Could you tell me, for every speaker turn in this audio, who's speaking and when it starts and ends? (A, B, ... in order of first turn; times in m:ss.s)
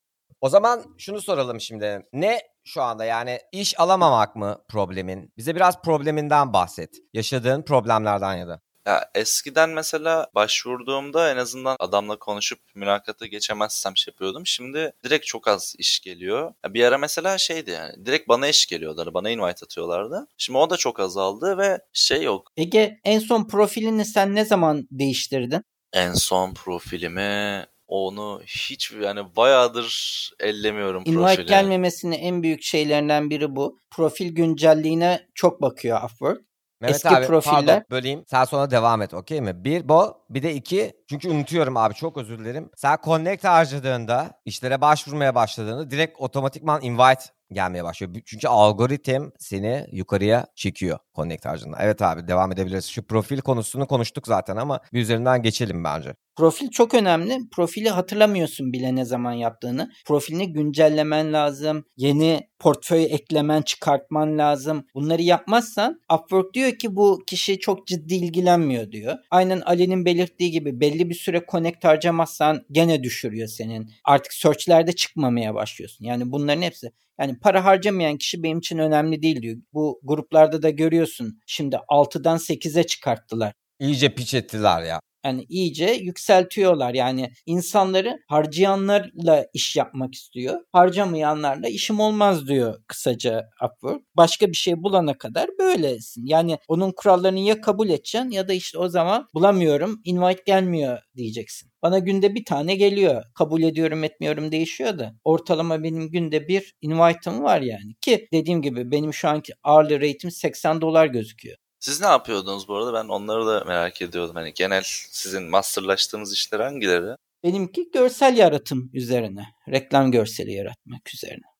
0:00.4-0:08.6 A
0:08.8-0:22.4 B
0:22.6-0:25.6 C
0:25.9-0:31.7 B
0:31.0-0:37.8 C
0:36.8-0:56.1 A
0:56.4-1:23.5 C
1:23.8-1:25.0 A
1:25.2-1:51.6 C
1:51.8-1:57.2 B
1:57.4-2:01.4 C